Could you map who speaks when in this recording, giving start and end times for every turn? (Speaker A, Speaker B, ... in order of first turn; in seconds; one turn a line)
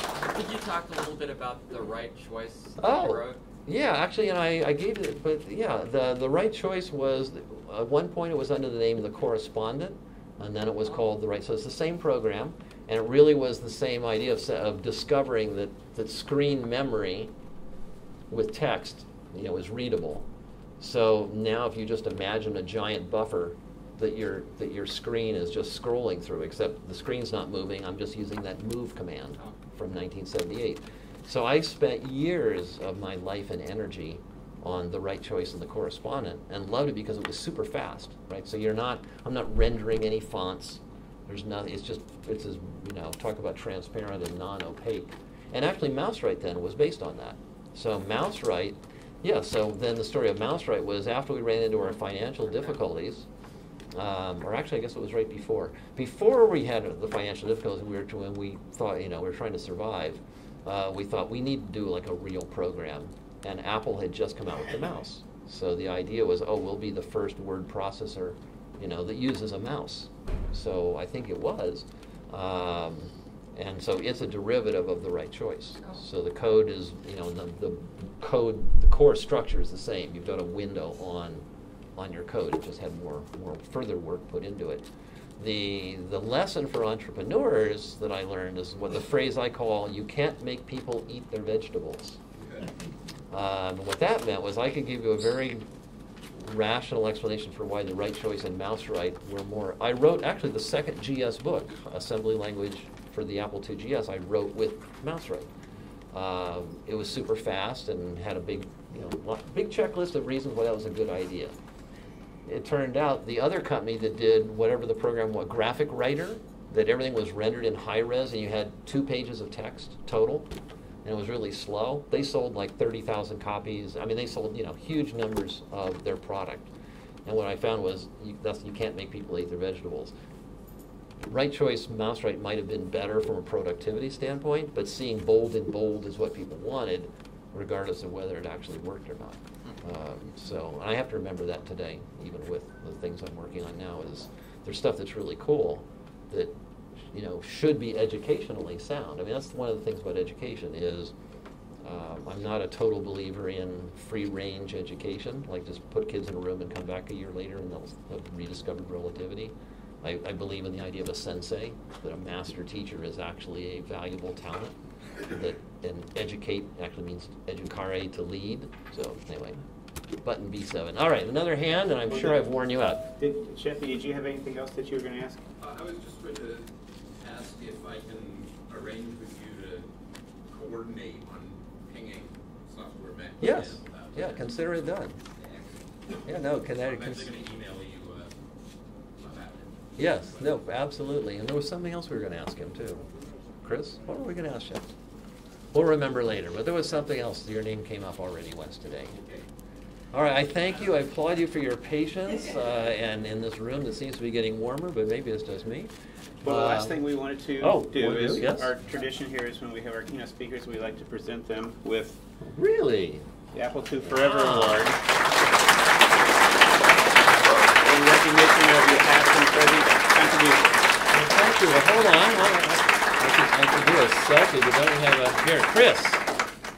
Speaker A: 2.8-17.3
Speaker A: 18.3-20.2
Speaker A: 20.8-53.2
Speaker A: 53.9-81.4
Speaker A: 82.0-84.9
Speaker A: 85.4-92.2
Speaker A: 93.3-95.7
Speaker A: 96.4-105.5
Speaker A: 106.1-111.5
Speaker A: 112.5-120.5
Speaker A: 121.0-126.7
Speaker A: 127.2-130.1
Speaker A: 131.2-146.5
Speaker A: 147.1-151.1
Speaker A: 151.8-169.6
Speaker A: 170.2-173.1
Speaker B: 172.1-172.4
Speaker B: 173.2-175.4
Speaker C: 175.6-176.7
Speaker C: 177.2-179.8
Speaker C: 180.5-184.3
Speaker A: 183.4-185.2
Speaker C: 185.3-185.8
Speaker A: 186.2-187.3
Speaker C: 186.9-188.3
Speaker C: 189.2-189.7
Speaker A: 190.0-193.1
Speaker A: 193.6-194.9
Speaker A: 195.7-199.2
Speaker A: 200.1-205.9
Speaker B: 206.4-212.2
Speaker A: 206.4-207.0
Speaker A: 207.6-208.7
Speaker A: 212.4-213.2
Speaker B: 213.5-215.0
Speaker A: 214.0-214.8
Speaker B: 217.6-220.8
Speaker A: 221.1-226.2